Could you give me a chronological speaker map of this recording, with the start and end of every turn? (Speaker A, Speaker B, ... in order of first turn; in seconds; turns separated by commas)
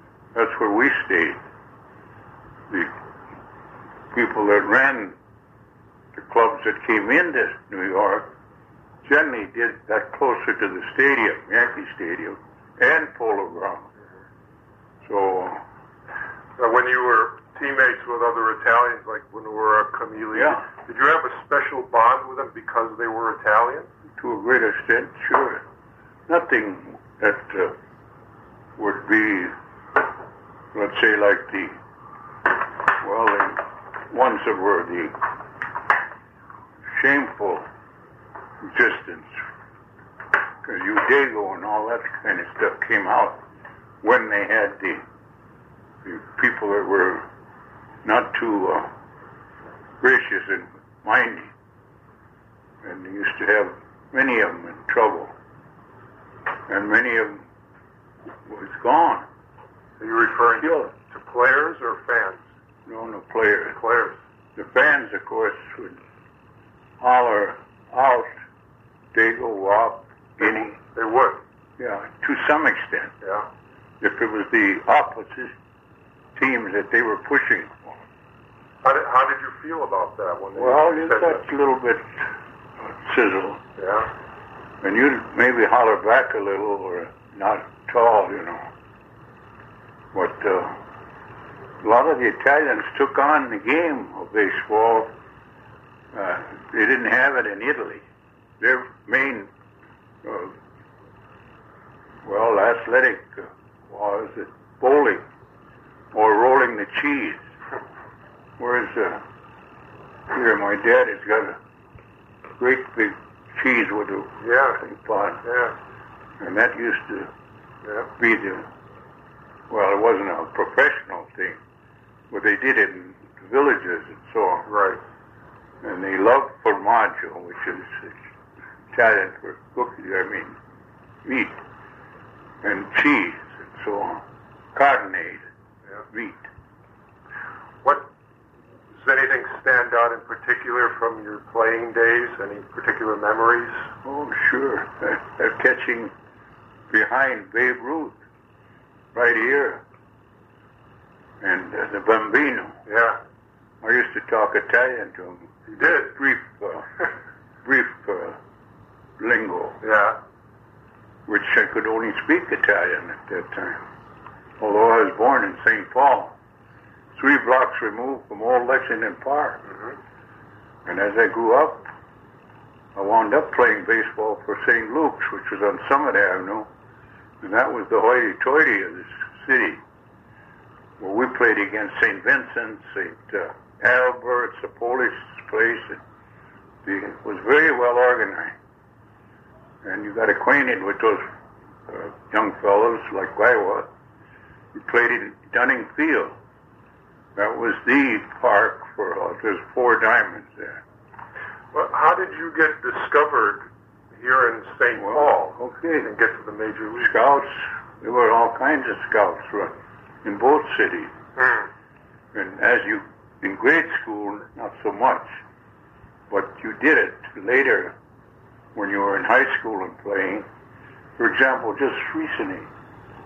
Speaker A: 0.3-1.4, Speaker A: 4.1-5.2, Speaker A: 6.1-8.3, Speaker A: 9.0-13.9, Speaker A: 15.0-15.6, Speaker B: 16.6-23.9, Speaker A: 20.3-20.6, Speaker A: 24.2-25.6, Speaker A: 26.3-27.7, Speaker A: 28.8-29.5, Speaker A: 30.7-31.8, Speaker A: 33.0-35.2, Speaker A: 36.9-37.6, Speaker A: 38.6-39.4, Speaker A: 40.6-43.4, Speaker A: 44.0-45.0, Speaker A: 46.0-47.2, Speaker A: 48.0-48.9, Speaker A: 50.0-51.5, Speaker A: 52.8-55.3, Speaker A: 56.7-57.4, Speaker A: 58.5-59.2, Speaker B: 60.0-62.4, Speaker A: 60.6-60.9, Speaker A: 62.9-63.8, Speaker B: 63.7-64.2, Speaker A: 64.5-66.0, Speaker A: 67.0-68.3, Speaker A: 69.1-70.8, Speaker B: 70.8-71.4, Speaker A: 71.8-73.1, Speaker B: 73.2-73.5, Speaker A: 74.0-75.5, Speaker A: 76.3-78.0, Speaker B: 78.8-81.4, Speaker A: 80.6-82.3, Speaker A: 82.8-83.6, Speaker B: 83.8-84.1, Speaker A: 84.8-88.6, Speaker A: 90.1-90.8, Speaker A: 91.8-95.1, Speaker A: 96.1-98.0, Speaker A: 98.6-99.5, Speaker A: 100.2-100.5, Speaker A: 102.2-105.2, Speaker A: 106.1-107.4, Speaker A: 108.6-109.2, Speaker A: 110.3-111.6, Speaker A: 112.6-115.4, Speaker B: 114.4-114.8, Speaker B: 115.4-115.7, Speaker A: 116.4-117.3, Speaker A: 118.2-118.7, Speaker A: 119.7-121.6, Speaker A: 122.3-124.7, Speaker B: 124.7-125.0, Speaker A: 125.8-128.2, Speaker A: 128.9-130.6, Speaker A: 131.2-131.6, Speaker A: 132.6-134.2, Speaker A: 134.7-135.4, Speaker A: 136.1-136.5, Speaker B: 137.8-138.1, Speaker B: 139.0-143.9, Speaker A: 144.0-146.1, Speaker A: 146.9-148.2, Speaker A: 149.1-149.8, Speaker A: 151.4-152.8, Speaker B: 152.8-153.2, Speaker A: 153.8-156.9, Speaker B: 155.7-156.1, Speaker A: 157.6-158.4, Speaker A: 159.2-159.8, Speaker B: 159.8-160.2, Speaker A: 161.3-163.8, Speaker A: 164.6-166.3, Speaker A: 167.1-169.6, Speaker A: 170.8-171.9, Speaker A: 172.9-176.7, Speaker A: 177.4-179.8, Speaker A: 181.0-186.0, Speaker A: 186.8-188.5, Speaker A: 189.8-191.2, Speaker A: 191.9-193.9, Speaker A: 194.7-196.3, Speaker A: 197.3-200.8, Speaker B: 201.7-207.1, Speaker A: 205.0-206.1, Speaker A: 207.0-211.1, Speaker B: 211.4-211.7, Speaker A: 212.3-215.3, Speaker A: 216.3-217.9, Speaker A: 218.7-220.5, Speaker A: 221.2-222.7